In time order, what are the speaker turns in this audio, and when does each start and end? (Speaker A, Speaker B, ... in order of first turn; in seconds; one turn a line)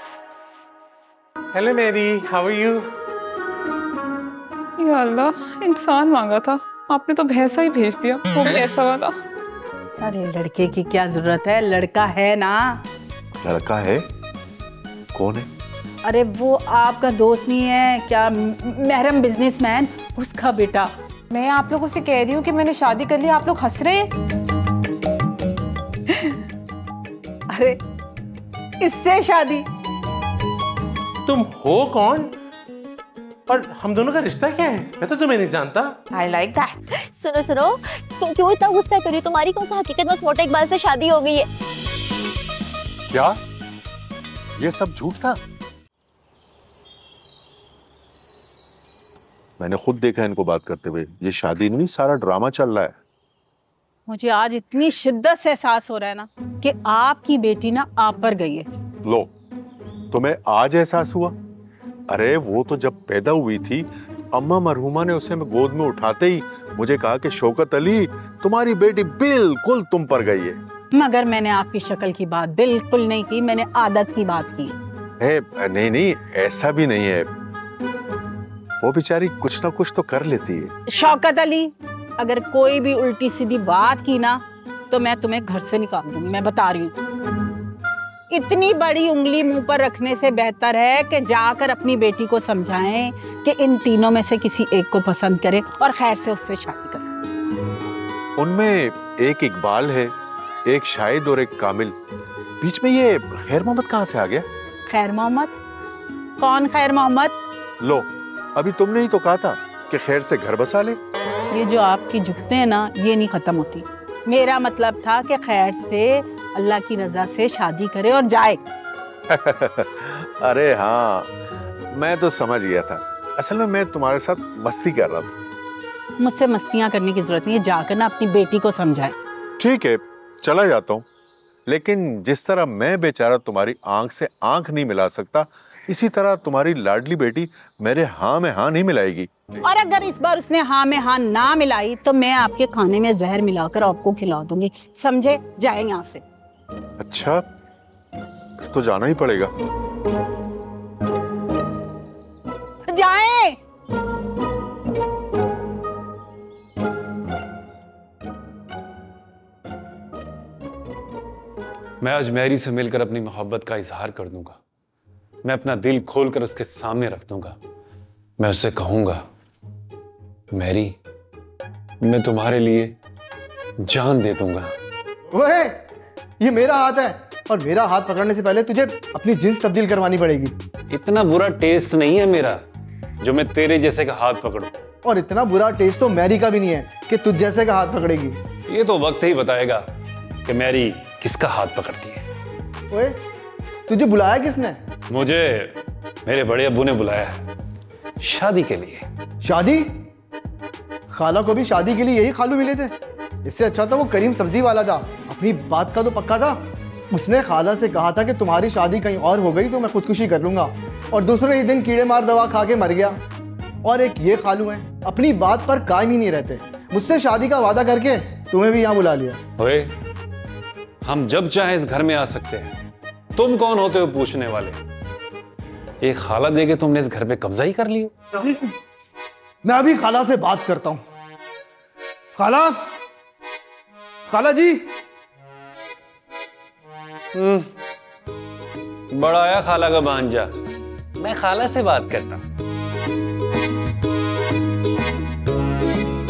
Speaker A: 1.5-2.8
Speaker B: 4.8-9.2
Speaker C: 10.0-12.8
Speaker D: 13.4-14.0
Speaker D: 15.1-15.5
Speaker C: 16.0-20.9
Speaker B: 21.3-24.1
Speaker C: 26.1-26.4
Speaker C: 27.5-27.8
Speaker C: 28.8-29.7
Speaker A: 31.3-32.3
Speaker A: 33.5-36.0
Speaker B: 36.1-36.8
Speaker E: 37.1-41.5
Speaker D: 43.1-43.4
Speaker D: 44.6-45.4
Speaker D: 49.6-53.0
Speaker C: 54.1-58.7
Speaker D: 59.0-59.3
Speaker D: 60.1-61.4
Speaker D: 62.1-70.6
Speaker C: 70.9-74.8
Speaker D: 75.2-77.3
Speaker D: 78.8-80.7
Speaker C: 80.9-86.9
Speaker C: 88.3-97.0
Speaker D: 98.4-100.1
Speaker D: 100.7-102.0
Speaker D: 102.6-104.5
Speaker C: 104.9-105.5
Speaker C: 106.4-107.4
Speaker D: 107.8-111.0
Speaker C: 111.5-118.6
Speaker D: 119.3-121.3
Speaker D: 121.9-125.3
Speaker C: 126.2-129.2
Speaker D: 129.6-131.1
Speaker D: 131.7-139.6
Speaker C: 139.6-146.2
Speaker D: 147.0-147.4
Speaker D: 148.6-149.5
Speaker C: 152.8-153.6
Speaker F: 162.0-164.6
Speaker F: 165.4-167.6
Speaker F: 168.4-169.2
Speaker F: 170.5-170.9
Speaker F: 172.0-172.9
Speaker F: 173.8-174.7
Speaker G: 175.3-175.8
Speaker G: 176.4-180.5
Speaker F: 180.9-182.6
Speaker F: 183.2-184.7
Speaker G: 185.0-188.4
Speaker F: 188.7-189.8
Speaker F: 190.5-192.2
Speaker G: 192.9-193.2
Speaker G: 193.9-194.8
Speaker F: 195.1-197.4
Speaker F: 198.2-199.1
Speaker G: 199.4-199.9
Speaker G: 201.1-206.6
Speaker G: 207.1-213.2
Speaker G: 213.8-219.4
Speaker F: 219.6-219.9
Speaker F: 221.0-222.7
Speaker F: 223.4-224.8
Speaker F: 226.0-228.5
Speaker G: 229.6-231.0
Speaker G: 232.4-232.8
Speaker G: 234.3-234.8
Speaker F: 237.3-237.7
Speaker F: 239.1-240.5
Speaker F: 241.2-242.4